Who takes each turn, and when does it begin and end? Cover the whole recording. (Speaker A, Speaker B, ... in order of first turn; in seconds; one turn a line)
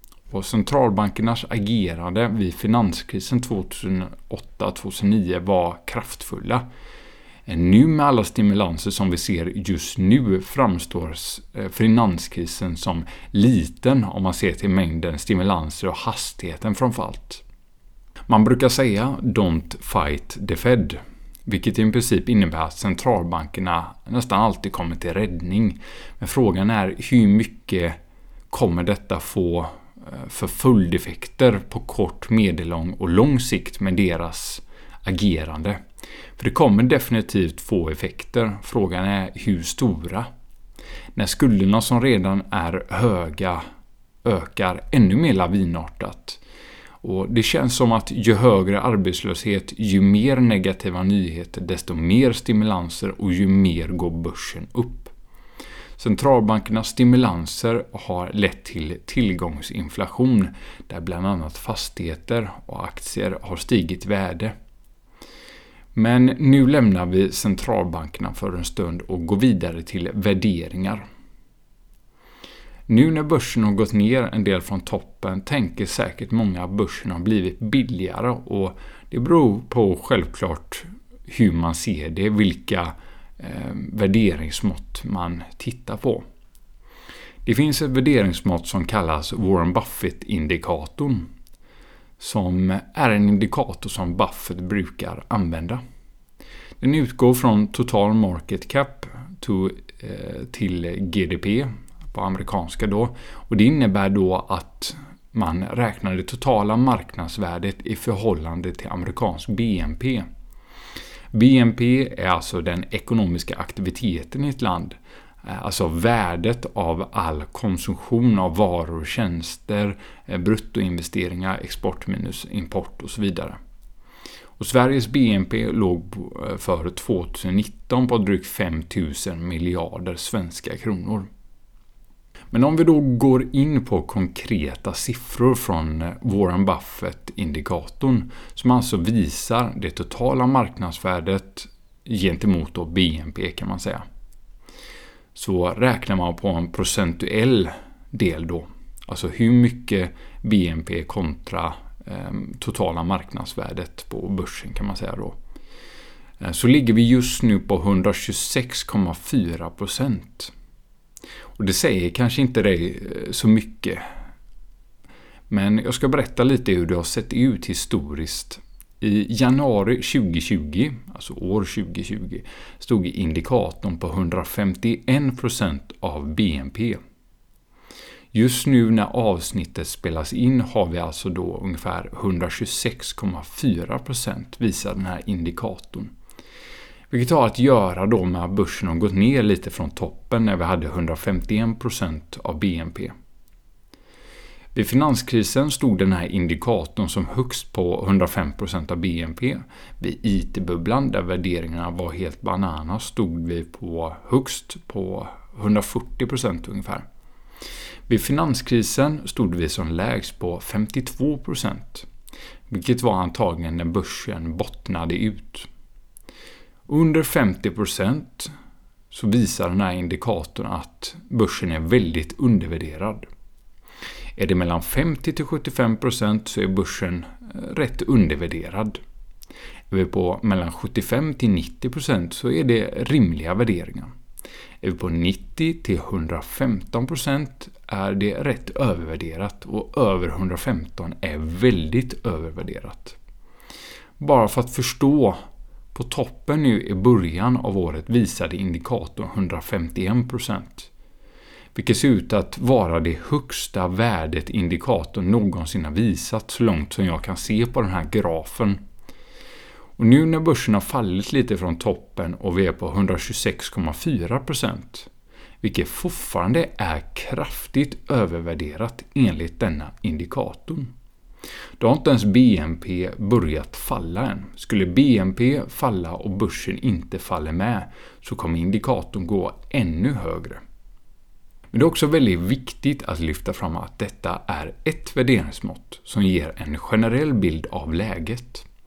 Speaker A: 0.3-6.6
Speaker A: 7.5-17.4
Speaker A: 18.3-28.0
Speaker A: 28.5-35.8
Speaker A: 36.4-40.3
Speaker A: 41.1-43.6
Speaker A: 44.2-46.4
Speaker A: 47.0-55.1
Speaker A: 56.0-64.5
Speaker A: 65.9-71.0
Speaker A: 72.9-86.2
Speaker A: 87.4-91.3
Speaker A: 92.2-95.8
Speaker A: 96.8-110.2
Speaker A: 111.3-123.6
Speaker A: 124.6-131.3
Speaker A: 132.5-144.0
Speaker A: 145.3-155.4
Speaker A: 156.4-160.5
Speaker A: 161.6-164.1
Speaker A: 165.5-177.0
Speaker A: 178.3-186.1
Speaker A: 187.1-193.1
Speaker A: 194.7-207.1
Speaker A: 208.1-212.1
Speaker A: 212.7-215.7
Speaker A: 216.9-218.5
Speaker A: 219.1-223.3
Speaker A: 224.3-229.0
Speaker A: 229.9-234.1
Speaker A: 234.8-243.2
Speaker A: 244.2-245.4
Speaker A: 245.9-250.9
Speaker A: 251.7-258.8
Speaker A: 260.0-265.1
Speaker A: 265.6-270.9
Speaker A: 271.8-280.6
Speaker A: 281.7-288.6